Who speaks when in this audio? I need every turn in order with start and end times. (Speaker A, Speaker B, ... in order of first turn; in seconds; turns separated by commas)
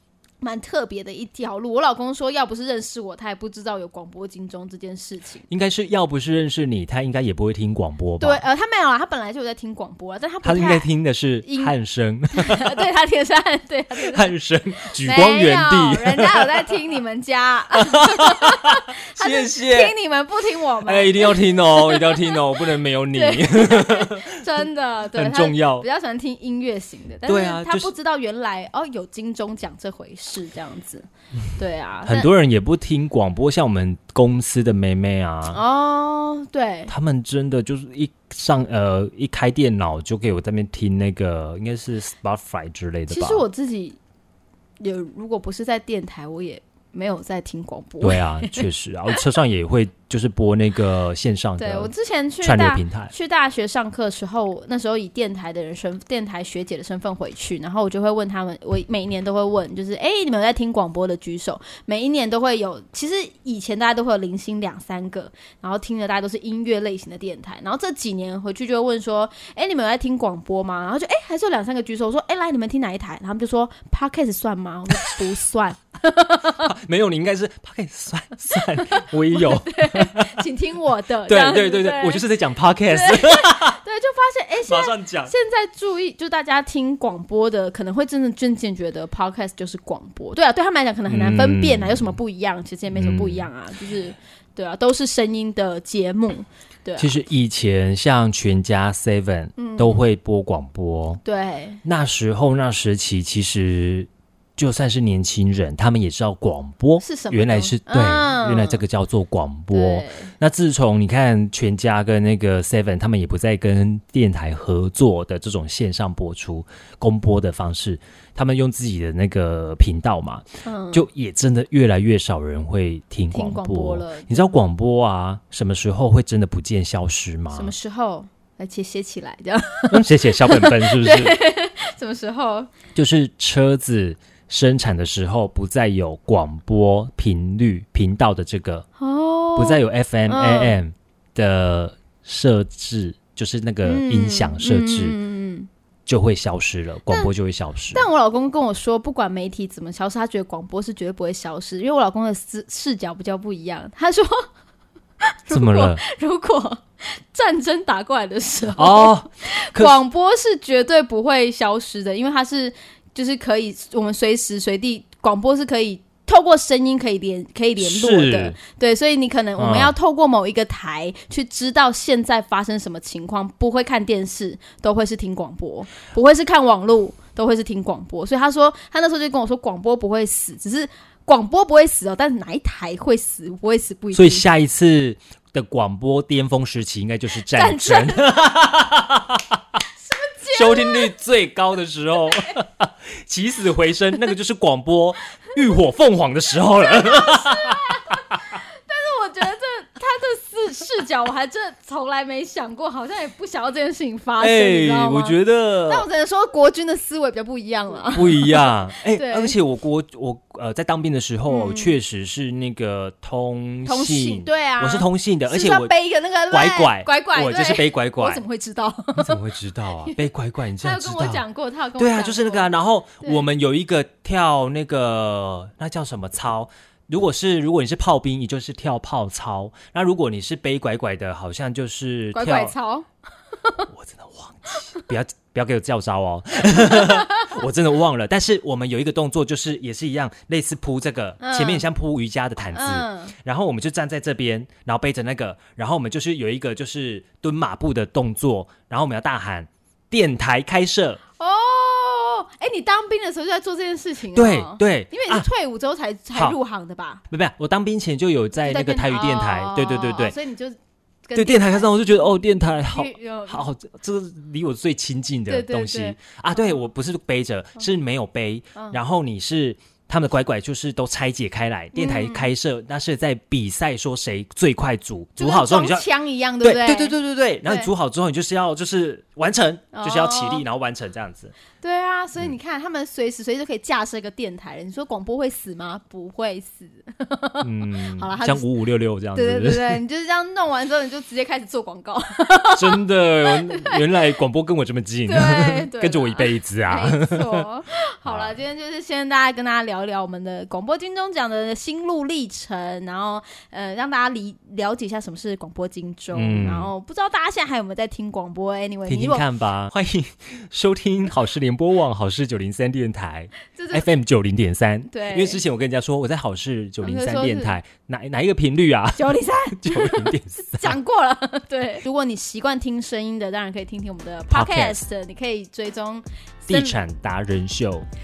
Speaker A: 0.4-5.5, Speaker B: 5.5-8.4, Speaker A: 8.2-10.9, Speaker B: 10.4-12.7, Speaker A: 11.4-11.7, Speaker A: 12.3-14.3, Speaker B: 14.1-16.5, Speaker A: 15.0-22.4, Speaker B: 17.8-19.9, Speaker B: 20.9-24.4, Speaker A: 23.1-32.3, Speaker B: 25.1-25.9, Speaker B: 27.2-27.9, Speaker B: 32.0-35.6, Speaker A: 35.5-36.9, Speaker B: 36.9-43.4, Speaker A: 43.1-44.0, Speaker A: 44.8-49.2, Speaker B: 48.0-53.1, Speaker A: 51.6-76.7, Speaker B: 76.6-80.4, Speaker A: 78.5-82.3, Speaker B: 81.3-83.8, Speaker A: 82.9-97.1, Speaker B: 84.7-85.3, Speaker B: 91.1-92.1, Speaker B: 92.9-93.5, Speaker B: 97.0-101.2, Speaker A: 99.6-100.0, Speaker A: 101.2-101.8, Speaker B: 101.8-127.7, Speaker A: 107.0-108.8, Speaker A: 109.7-110.3, Speaker A: 120.6-121.0, Speaker A: 123.3-124.5, Speaker A: 127.5-132.7, Speaker B: 129.9-131.3, Speaker B: 132.9-138.8, Speaker A: 139.0-140.8, Speaker B: 139.6-145.2, Speaker A: 143.8-145.7, Speaker B: 146.1-148.1, Speaker A: 147.9-154.4, Speaker A: 155.3-184.4, Speaker B: 155.5-156.0, Speaker B: 158.8-160.0, Speaker B: 167.8-168.6, Speaker B: 169.6-169.9, Speaker B: 184.1-189.6, Speaker A: 187.4-188.6, Speaker A: 190.0-191.1, Speaker B: 190.5-198.4, Speaker A: 192.3-192.6, Speaker A: 196.8-209.6, Speaker B: 204.4-206.1, Speaker B: 208.1-215.9, Speaker A: 211.5-211.9, Speaker A: 213.8-219.4, Speaker B: 216.5-218.4, Speaker B: 219.1-221.4, Speaker A: 220.8-223.4, Speaker B: 222.0-232.7, Speaker A: 232.3-233.1, Speaker A: 233.6-233.9, Speaker B: 233.9-251.2, Speaker A: 234.7-235.1, Speaker A: 236.9-237.6, Speaker A: 241.4-241.9, Speaker A: 242.7-243.3, Speaker A: 251.4-257.2, Speaker B: 254.3-255.4, Speaker B: 257.3-260.4, Speaker A: 258.6-263.7, Speaker B: 261.4-276.1, Speaker A: 265.5-266.8, Speaker A: 271.9-272.5, Speaker A: 275.4-277.9, Speaker B: 276.6-281.5, Speaker A: 279.9-280.6, Speaker A: 281.8-288.7, Speaker B: 287.6-290.0, Speaker A: 289.3-294.0, Speaker B: 292.8-297.6, Speaker A: 295.2-309.4, Speaker B: 298.2-298.6, Speaker B: 306.3-306.9, Speaker B: 309.1-321.0, Speaker A: 313.7-314.1, Speaker A: 315.1-315.6, Speaker A: 317.0-317.8, Speaker A: 319.1-327.0, Speaker B: 324.5-325.0, Speaker B: 326.7-328.1